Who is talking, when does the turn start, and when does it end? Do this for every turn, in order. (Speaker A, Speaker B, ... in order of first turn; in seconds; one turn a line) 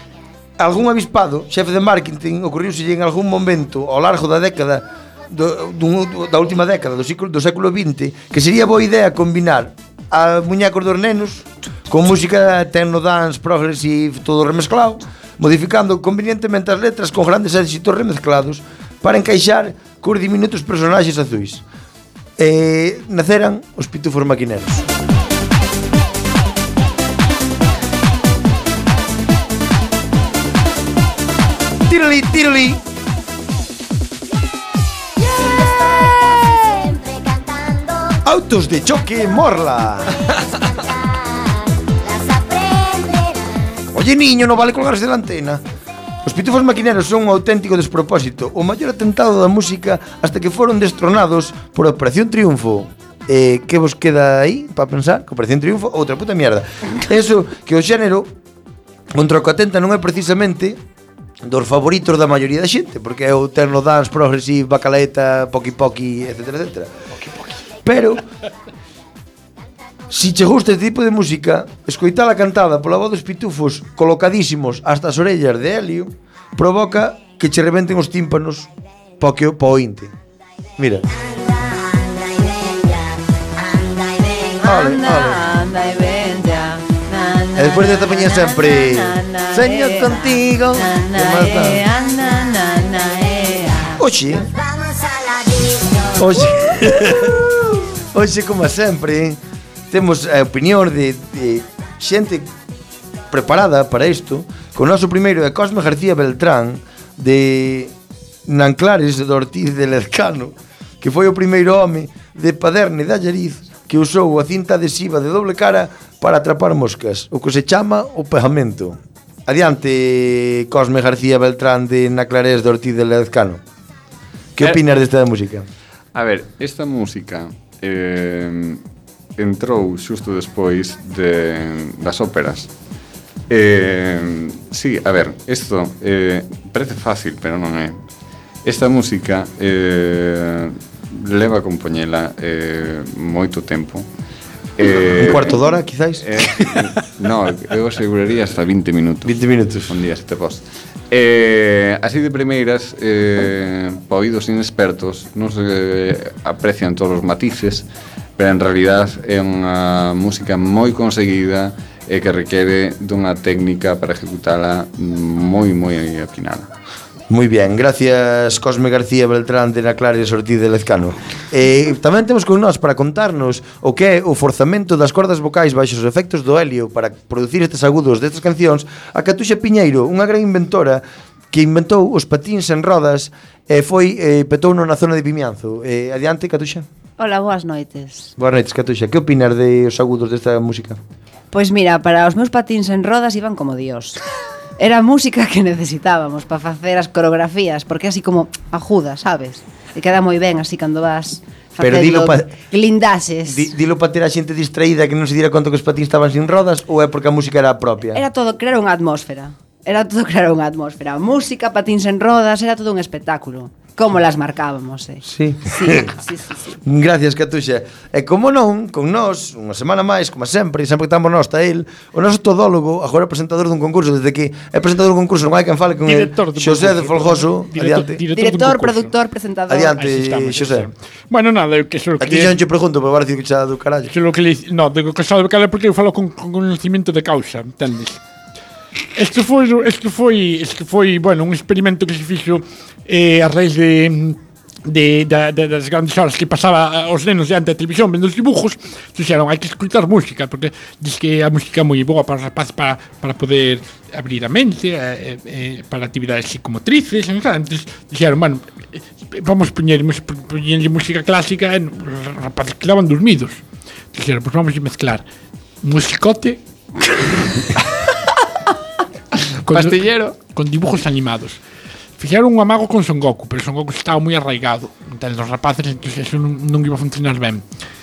Speaker A: 0.6-21.6
Speaker A: 22.4-24.9
Speaker A: 31.9-32.8
Speaker A: 38.2-40.3
Speaker A: 43.9-45.6
Speaker A: 46.2-58.3
Speaker A: 59.1-60.8
Speaker A: 61.4-66.9
Speaker B: 67.2-67.5
Speaker A: 67.8-68.2
Speaker A: 70.1-78.7
Speaker A: 79.2-80.1
Speaker A: 80.8-81.0
Speaker C: 84.5-94.0
Speaker A: 84.6-85.5
Speaker A: 87.5-91.9
Speaker A: 94.0-94.6
Speaker A: 96.1-102.5
Speaker A: 103.3-107.9
Speaker A: 108.5-123.6
Speaker A: 124.5-125.7
Speaker D: 126.1-128.8
Speaker D: 129.4-132.7
Speaker D: 133.5-138.0
Speaker D: 138.7-144.1
Speaker D: 144.8-145.6
Speaker A: 144.9-146.5
Speaker D: 146.2-157.9
Speaker A: 149.2-150.0
Speaker D: 158.4-166.7
Speaker A: 167.3-186.9
Speaker C: 187.2-188.3
Speaker A: 188.4-191.0
Speaker C: 191.5-194.2
Speaker C: 194.8-203.7
Speaker A: 201.8-202.5
Speaker A: 203.5-208.2
Speaker C: 208.1-216.8
Speaker A: 215.2-216.2
Speaker A: 216.8-228.2
Speaker B: 226.1-229.1
Speaker C: 228.3-230.0
Speaker A: 229.7-230.9
Speaker B: 230.0-232.5
Speaker A: 232.2-234.1
Speaker B: 234.1-238.2
Speaker B: 239.2-263.6
Speaker B: 264.1-265.2
Speaker B: 265.8-266.6
Speaker B: 269.6-271.6
Speaker D: 269.7-270.3
Speaker B: 272.2-277.6